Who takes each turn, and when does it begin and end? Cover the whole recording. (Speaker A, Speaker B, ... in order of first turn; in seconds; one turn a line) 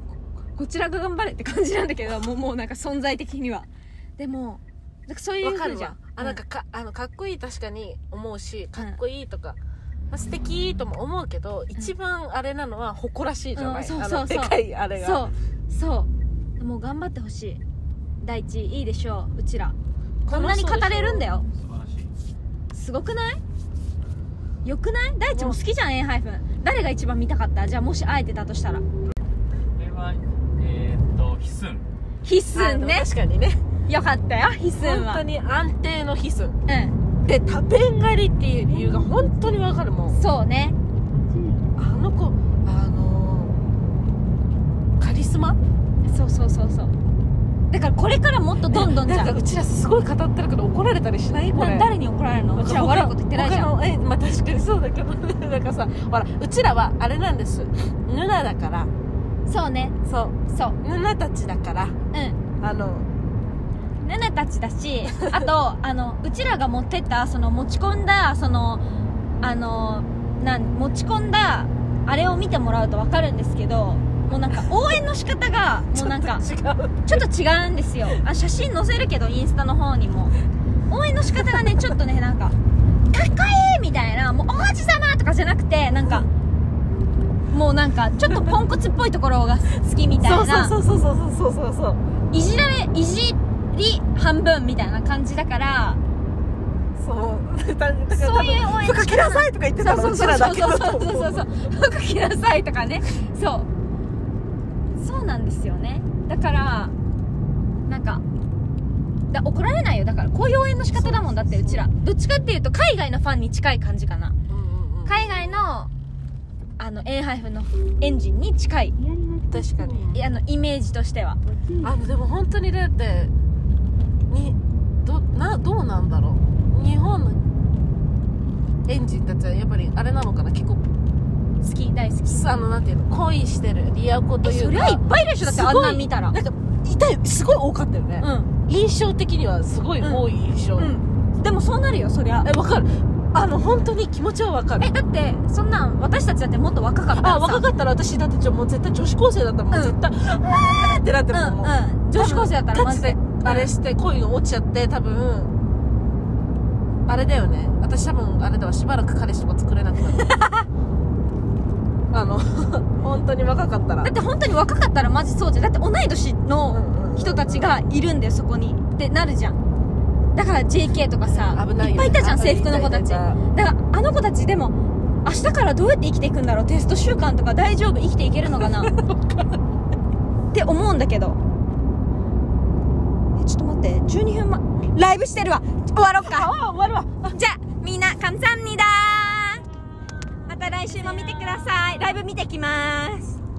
Speaker A: 0.5-6.4
Speaker B: 5.4-9.6
Speaker B: 10.1-15.2
Speaker A: 13.5-17.6
Speaker A: 18.2-19.8
Speaker B: 20.3-21.2
Speaker A: 20.3-21.5
Speaker C: 21.4-22.1
Speaker A: 22.7-23.4
Speaker A: 24.6-28.8
Speaker B: 25.3-25.6
Speaker C: 29.8-31.9
Speaker A: 32.2-33.1
Speaker B: 32.5-33.6
Speaker A: 33.9-35.2
Speaker B: 34.8-36.6
Speaker A: 36.7-37.0
Speaker B: 37.2-40.2
Speaker A: 40.1-40.8
Speaker B: 41.8-43.5
Speaker B: 45.0-45.6
Speaker A: 46.0-46.9
Speaker A: 47.7-49.4
Speaker B: 48.6-51.9
Speaker A: 51.5-53.7
Speaker B: 52.5-58.9
Speaker A: 59.5-60.0
Speaker B: 60.0-62.0
Speaker A: 60.5-60.8
Speaker A: 62.1-62.4
Speaker B: 62.6-63.1
Speaker A: 64.0-68.8
Speaker B: 65.1-65.4
Speaker A: 69.4-76.4
Speaker B: 75.9-77.2
Speaker A: 77.0-80.3
Speaker A: 80.9-82.5
Speaker A: 83.1-86.3
Speaker A: 87.5-90.8
Speaker B: 90.2-92.0
Speaker A: 92.3-96.0
Speaker B: 97.0-101.6
Speaker A: 98.1-103.7
Speaker A: 105.0-106.9
Speaker A: 107.9-108.2
Speaker A: 109.3-114.3
Speaker B: 110.9-111.8
Speaker B: 114.5-115.6
Speaker A: 115.0-115.9
Speaker A: 116.8-118.9
Speaker B: 119.5-120.2
Speaker A: 120.1-121.4
Speaker B: 121.8-123.3
Speaker B: 124.3-127.4
Speaker B: 128.9-130.9
Speaker A: 131.6-132.4
Speaker B: 132.2-140.9
Speaker A: 134.4-136.4
Speaker A: 138.2-138.5
Speaker A: 140.0-142.5
Speaker B: 142.4-144.9
Speaker A: 144.8-147.6
Speaker B: 147.1-155.5
Speaker A: 149.7-150.0
Speaker A: 151.3-153.7
Speaker B: 157.1-160.4
Speaker A: 160.2-160.6
Speaker B: 162.1-164.1
Speaker A: 164.0-169.6
Speaker B: 166.7-167.7
Speaker A: 170.3-178.9
Speaker B: 171.2-173.4
Speaker B: 178.6-179.5
Speaker A: 180.5-181.4
Speaker A: 183.3-186.5
Speaker B: 186.2-187.4
Speaker A: 187.3-189.6
Speaker A: 190.5-193.4
Speaker B: 191.1-191.6